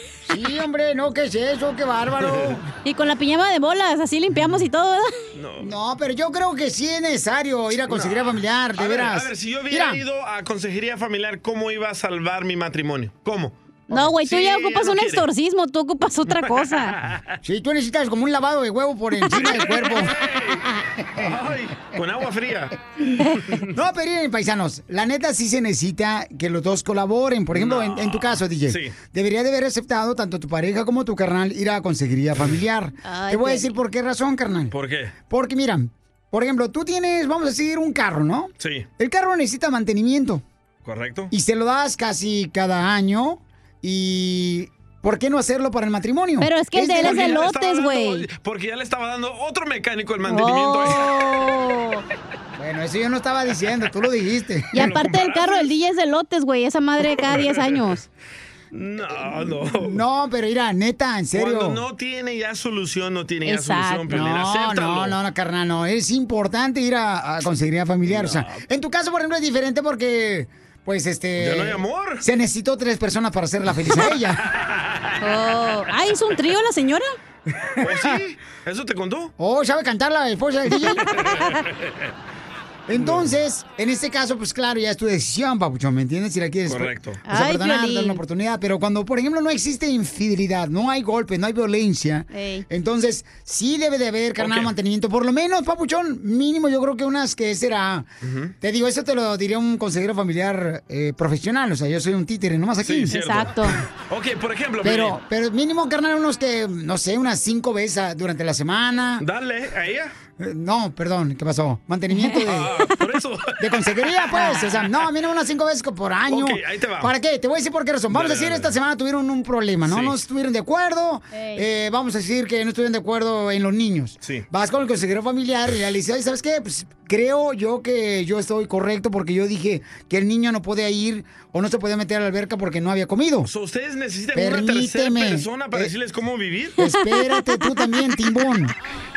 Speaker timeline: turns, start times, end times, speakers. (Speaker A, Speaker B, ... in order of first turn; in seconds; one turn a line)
Speaker A: 0.3-2.6
Speaker B: 2.2-2.5
Speaker C: 2.8-5.1
Speaker B: 5.3-5.7
Speaker A: 5.6-10.0
Speaker B: 7.8-15.2
Speaker C: 13.9-16.9
Speaker B: 16.6-17.2
Speaker A: 17.4-20.1
Speaker B: 19.3-20.6
Speaker B: 21.2-22.8
Speaker A: 23.7-34.7
Speaker B: 27.5-28.9
Speaker C: 33.0-33.7
Speaker B: 34.7-35.1
Speaker A: 35.3-40.4
Speaker B: 38.6-38.9
Speaker B: 40.8-41.3
Speaker A: 41.3-47.4
Speaker C: 46.4-48.2
Speaker B: 47.0-51.1
Speaker C: 50.3-52.0
Speaker A: 52.6-54.7
Speaker C: 54.7-58.0
Speaker B: 54.8-55.7
Speaker B: 57.2-57.8
Speaker B: 58.7-60.0
Speaker A: 59.7-61.8
Speaker B: 61.3-65.2
Speaker C: 63.4-64.1
Speaker A: 64.1-74.4
Speaker B: 68.0-68.6
Speaker B: 71.4-72.2
Speaker C: 75.2-77.1
Speaker A: 77.6-78.2
Speaker B: 77.8-79.3
Speaker A: 79.4-81.0
Speaker B: 81.2-81.5
Speaker A: 82.9-98.1
Speaker B: 82.9-83.3
Speaker B: 86.7-87.2
Speaker C: 87.3-88.2
Speaker C: 92.3-92.7
Speaker B: 94.4-94.7
Speaker B: 98.2-98.5
Speaker A: 98.6-103.1
Speaker B: 102.8-105.2
Speaker C: 103.1-103.8
Speaker A: 104.8-109.2
Speaker B: 109.2-110.1
Speaker A: 110.4-112.7
Speaker C: 112.1-112.4
Speaker B: 112.4-113.6
Speaker A: 113.6-133.5
Speaker C: 114.3-114.7
Speaker B: 116.3-117.1
Speaker B: 118.1-118.7
Speaker B: 119.8-120.2
Speaker C: 121.3-121.7
Speaker B: 133.4-136.8
Speaker A: 134.3-135.9
Speaker A: 136.8-138.7
Speaker C: 137.0-137.9